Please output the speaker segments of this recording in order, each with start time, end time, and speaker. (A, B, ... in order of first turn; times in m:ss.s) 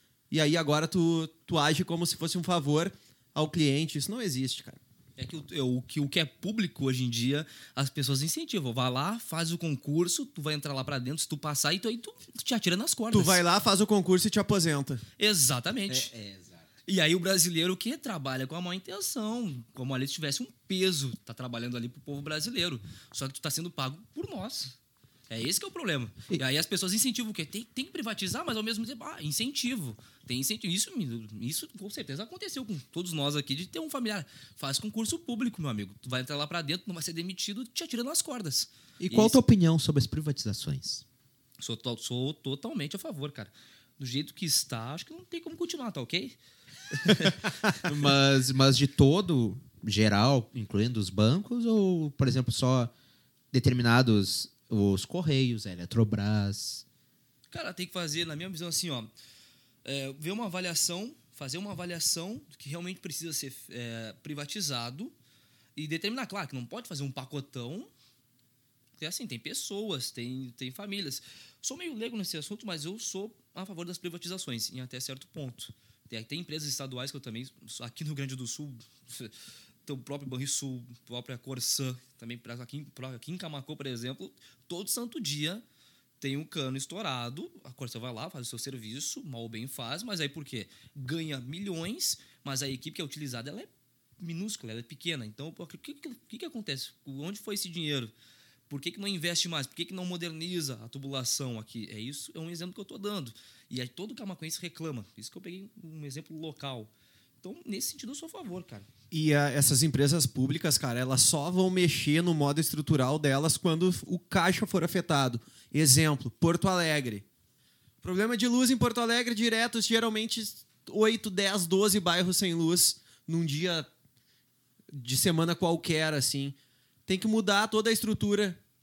0:00.3-0:04.8 A
0:05.2-0:13.4 B
0:13.1-0:15.0 A
0:15.2-0:16.1 B
0:15.9-0:16.6 C
0:16.9-0:24.7 B
0:25.3-0:39.4 B
0:39.0-0:41.0 C
0:41.6-0:46.4 B
0:46.9-0:47.4 B
0:47.8-0:52.9 C
0:53.5-0:56.8 C
0:57.5-0:59.1 B
0:59.8-1:05.1 B
1:05.8-1:07.9 B
1:09.0-1:19.3 B
1:19.8-1:25.6 B
1:26.2-1:38.1 B
1:38.7-1:46.9 B
1:47.4-1:48.9 B
1:49.1-1:57.2 A
1:58.0-2:03.9 A
2:04.9-2:06.5 A
2:07.1-2:08.6 A